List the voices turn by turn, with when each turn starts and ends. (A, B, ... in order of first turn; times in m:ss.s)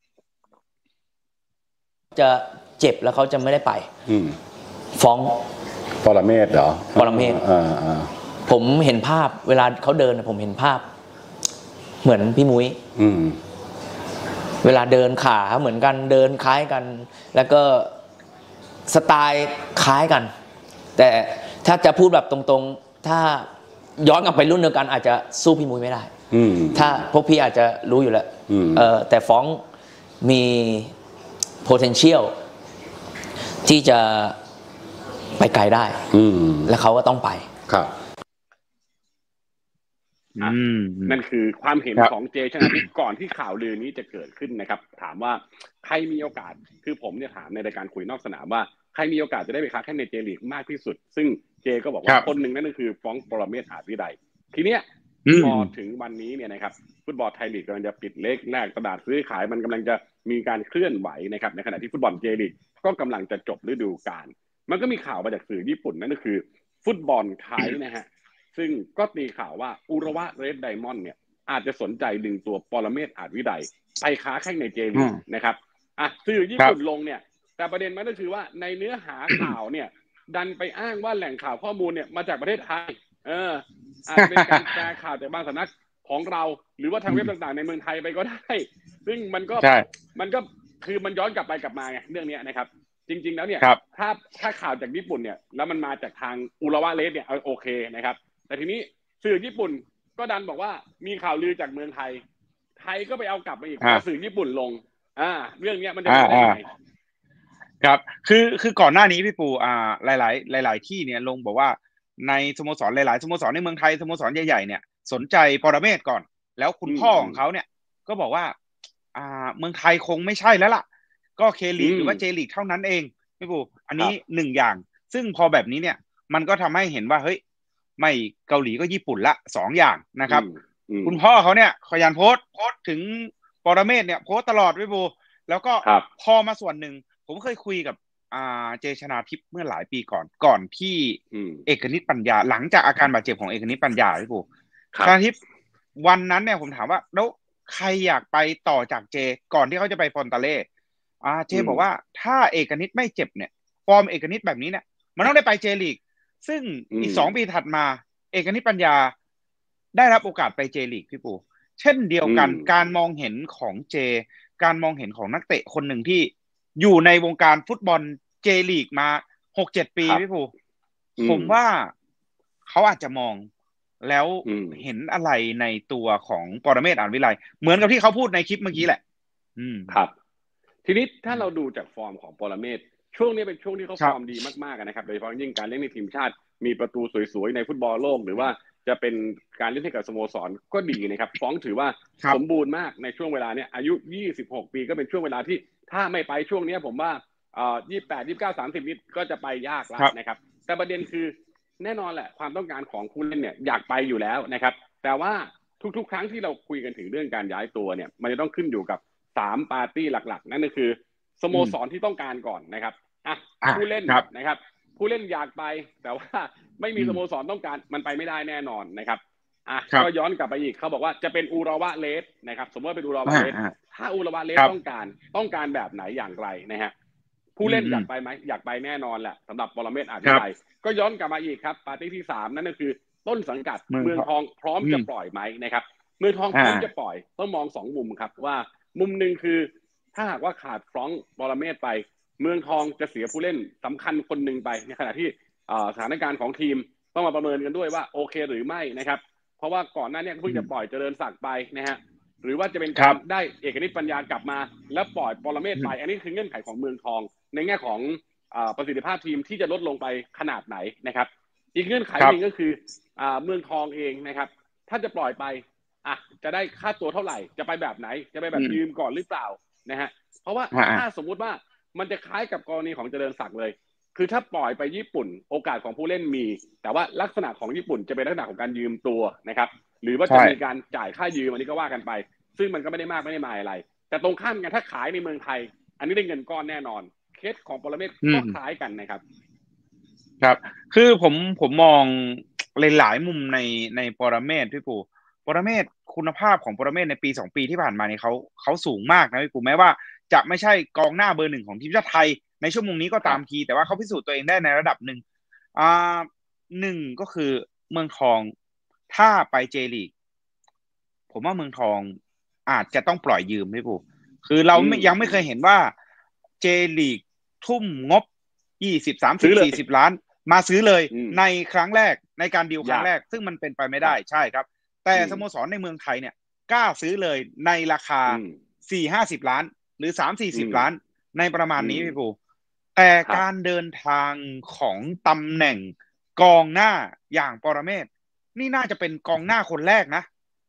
0:02.1-0:03.9 A
0:04.1-0:04.4 B
0:05.0-0:05.4 A
0:06.0-0:08.1 B
0:06.9-0:07.4 A
0:08.4-0:10.9 A
0:12.0-0:12.8 A
0:13.0-0:13.4 B
0:14.6-0:17.9 A
0:18.9-0:20.3 A
0:21.0-0:26.1 A
0:26.3-0:27.0 B
0:26.7-0:29.6 A
0:28.5-0:28.9 B
0:30.2-0:30.9 A
0:31.6-0:32.3 A
0:33.6-0:34.4 A
0:35.4-0:36.0 A
0:36.1-0:36.7 B
0:36.6-0:37.5 A
0:37.7-0:37.9 B
0:40.4-0:41.2 C
0:41.1-1:42.2 D
0:42.0-0:42.8 C
0:55.2-0:55.7 C
1:14.9-1:15.2 C
1:24.2-1:24.8 C
1:29.6-1:29.8 C
1:42.8-1:46.7 D
1:46.1-1:46.6 C
1:47.8-1:58.5 C
1:56.8-1:57.4 D
1:59.1-2:00.8 C
2:01.4-2:07.4 C
2:01.8-2:02.2 D
2:08.0-2:10.4 C
2:10.3-2:11.2 D
2:11.0-2:24.4 C
2:21.3-2:21.6 D
2:25.0-2:25.4 C
2:26.0-2:30.6 C
2:31.2-2:39.1 C
2:31.5-2:31.8 D
2:36.9-2:37.3 D
2:39.9-2:50.5 C
2:42.2-2:42.7 D
2:51.2-2:51.6 D
2:51.2-2:51.9 C
2:52.6-2:53.5 C
2:54.0-2:59.0 C
2:54.4-2:54.8 D
2:59.6-2:59.9 C
3:00.8-3:46.9 D
3:33.6-3:34.2 C
3:37.0-3:37.2 C
3:43.2-3:43.7 C
3:47.6-4:49.2 D
3:47.6-3:48.1 C
3:53.9-3:54.2 C
3:54.8-3:55.1 C
3:56.5-3:56.9 C
4:28.5-4:28.8 C
4:30.7-4:31.0 C
4:40.3-4:40.6 C
4:48.2-4:48.6 C
4:50.4-5:05.2 C
5:05.7-5:08.5 C
5:09.1-5:10.1 C
5:11.3-5:12.1 C
5:12.6-5:15.9 C
5:14.7-5:15.4 D
5:16.6-5:18.2 C
5:18.8-5:32.3 C
5:19.4-5:19.8 D
5:21.1-5:21.4 D
5:22.8-5:23.1 D
5:25.1-5:25.4 D
5:28.3-5:28.6 D
5:30.5-5:30.8 D
5:31.8-5:32.2 D
5:33.0-5:40.2 C